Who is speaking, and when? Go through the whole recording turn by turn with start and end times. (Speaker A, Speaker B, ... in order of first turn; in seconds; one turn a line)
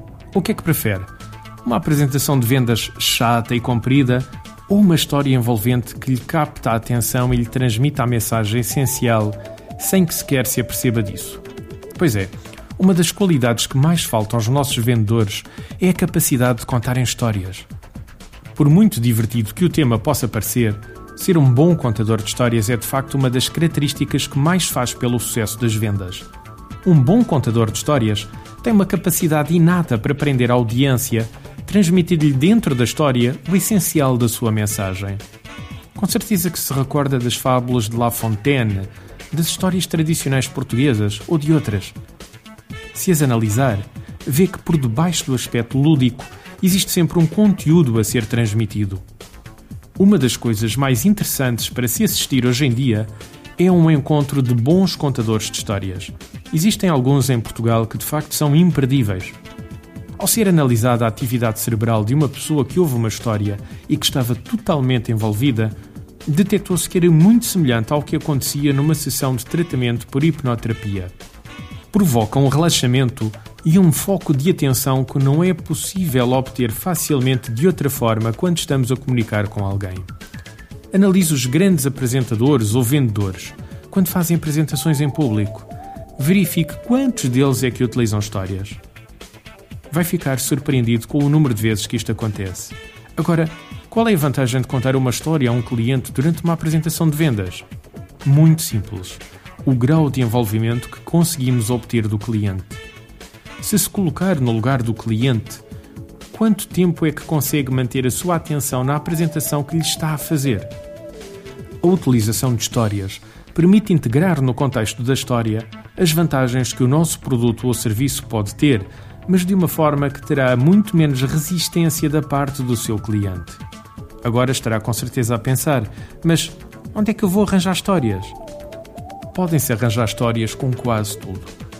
Speaker A: 0.3-1.1
Speaker A: 1.6-11.4
Speaker A: 12.0-17.7
Speaker A: 18.6-26.3
Speaker A: 26.8-35.2
Speaker A: 36.0-42.0
Speaker A: 42.9-49.0
Speaker A: 50.0-59.4
Speaker A: 60.2-65.7
Speaker A: 66.3-71.1
Speaker A: 71.9-80.1
Speaker A: 80.9-88.8
Speaker A: 89.9-97.7
Speaker A: 98.2-102.8
Speaker A: 103.6-105.6
Speaker A: 106.3-110.7
Speaker A: 111.8-123.6
Speaker A: 124.2-128.4
Speaker A: 129.3-131.5